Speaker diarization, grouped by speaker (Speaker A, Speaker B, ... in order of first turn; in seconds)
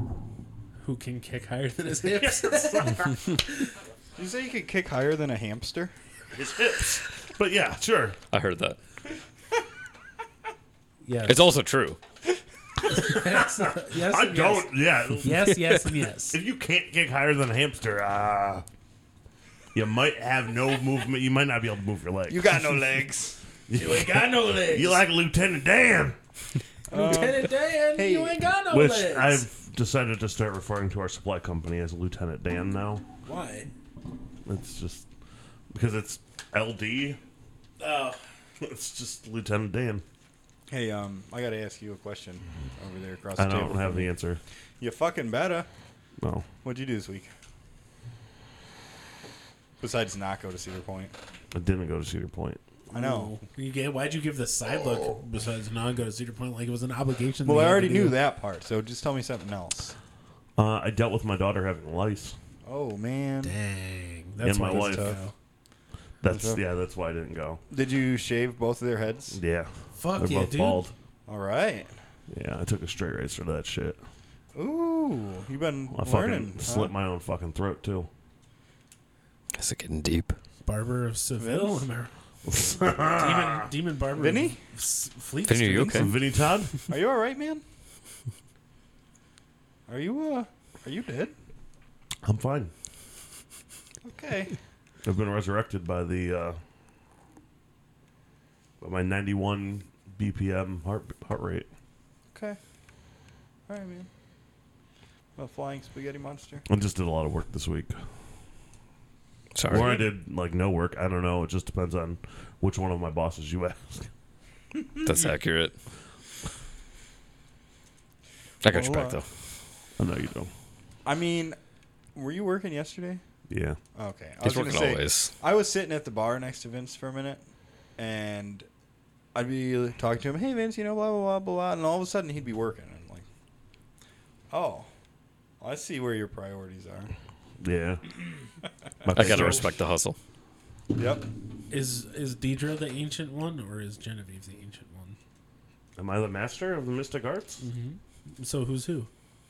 Speaker A: 0.8-3.7, 11.0-11.5, 12.9-16.4, 23.7-25.0, 26.9-29.4, 33.2-33.7, 37.8-38.2, 52.9-58.2, 63.4-65.3, 69.9-70.8, 80.6-82.1, 83.1-86.1, 141.7-145.2, 147.6-149.1
Speaker B: 2.0-3.2, 6.3-8.2, 13.8-15.5, 16.3-18.6, 19.7-22.6, 23.7-26.1, 28.7-33.0, 34.5-35.1, 35.7-37.2, 38.6-40.0, 43.4-44.4, 46.2-46.5, 51.5-52.6, 60.6-62.3, 64.4-65.2, 66.2-67.6, 69.3-70.9, 72.3-74.0, 75.9-78.1, 82.5-83.7, 85.8-86.7, 92.2-92.7, 95.0-96.6, 98.8-101.7, 106.7-108.0, 109.7-114.1, 120.0-120.5, 123.5-123.8, 137.6-138.0, 139.0-139.7, 146.0-147.6
Speaker C: 4.2-5.9, 22.3-23.4, 26.9-28.4, 40.7-44.1, 44.8-45.7, 46.6-47.3, 49.8-51.1, 52.9-53.4, 57.4-59.9, 62.6-63.5, 64.6-65.2, 66.3-66.6, 67.7-69.4, 71.3-72.0, 74.5-76.9, 81.4-81.8, 84.2-84.6, 85.7-86.1, 86.9-87.6, 89.9-91.3, 94.0-94.5, 102.3-102.6, 103.7-104.1, 105.3-106.7, 109.7-110.1, 118.6-119.2, 121.0-121.6, 122.1-123.2, 123.9-127.4, 128.0-128.7, 129.3-133.2, 134.5-134.9, 135.6-137.1, 139.2-139.6, 140.9-141.2
Speaker D: 8.3-8.8, 11.2-12.0, 79.5-80.3, 85.5-86.1, 109.5-110.0, 115.0-115.7, 118.6-119.2, 124.4-125.3, 139.1-140.2